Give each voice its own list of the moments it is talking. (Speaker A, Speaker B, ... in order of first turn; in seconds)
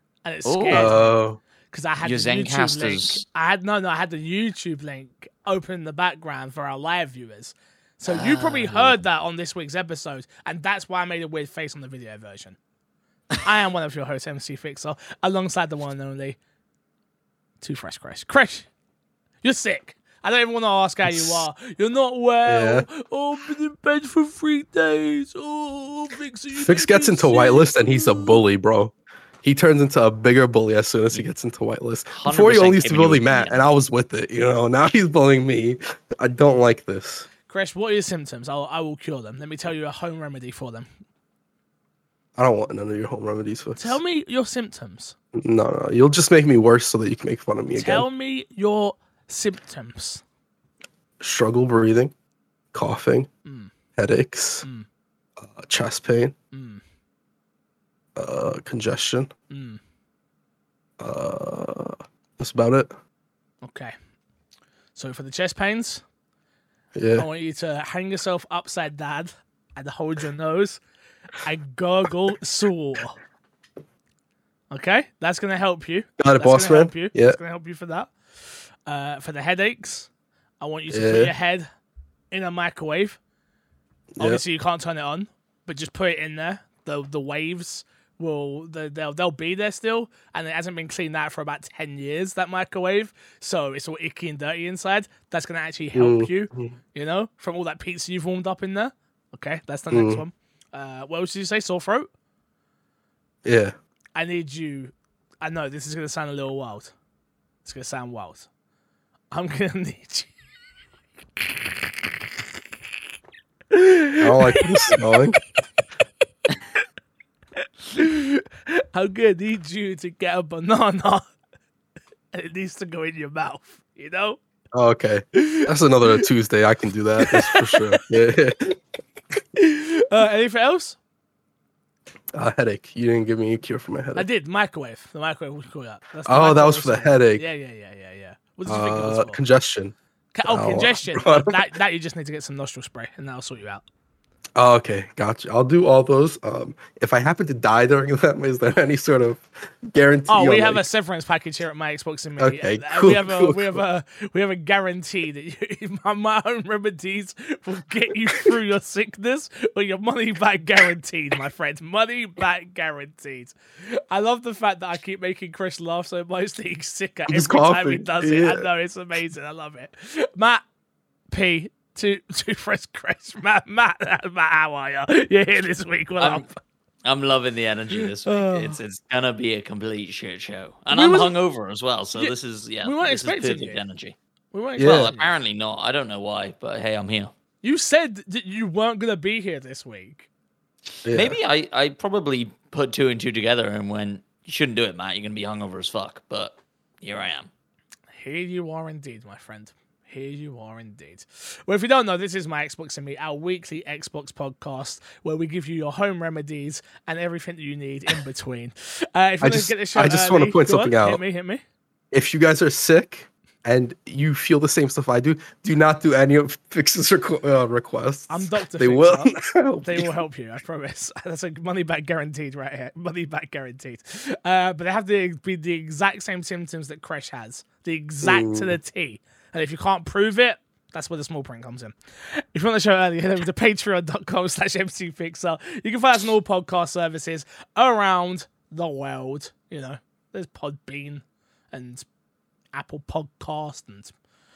Speaker A: 0.2-1.1, 1.7-12.6, 13.4-16.4, 17.6-18.7, 19.4-28.4, 37.5-40.9, 43.8-45.1, 47.7-50.2, 53.4-53.7, 56.5-56.8, 59.5-59.8, 63.6-63.9, 65.0-66.0, 67.2-70.8, 71.4-73.2, 74.7-80.1, 80.6-81.7, 82.3-83.2, 84.2-102.1, 104.2-106.9, 107.6-108.5, 109.3-110.3, 113.7-115.1, 117.9-121.2, 122.3-124.4, 125.3-126.2, 127.2-128.0, 129.6-131.0, 134.1-139.4, 140.3-143.8, 150.3-170.6, 171.3-176.5, 177.9-178.8, 180.9-181.3, 182.1-183.8, 184.5-185.3, 187.6-190.3, 198.1-211.6, 218.3-242.1, 242.7-244.1
Speaker B: 0.4-0.9, 2.0-3.2, 8.1-9.0, 32.2-33.6, 176.2-176.4, 177.0-184.2, 184.8-187.3, 191.1-197.5
Speaker C: 0.7-1.4, 21.0-21.5, 22.4-22.9, 26.5-37.3, 42.4-44.0, 45.3-48.0, 51.2-52.1, 52.7-53.3, 54.0-54.6, 55.4-56.3, 58.1-59.3, 61.0-62.9, 66.9-67.3, 76.2-77.4, 80.9-81.3, 84.2-84.4, 96.0-96.8, 99.9-100.2, 103.4-103.7, 114.2-115.4, 124.7-128.8, 132.3-134.3, 136.2-137.4, 138.7-141.6, 144.6-150.8, 152.4-153.8, 167.3-168.7, 184.8-185.1, 191.1-191.4, 209.4-211.2, 212.1-220.2, 228.2-228.8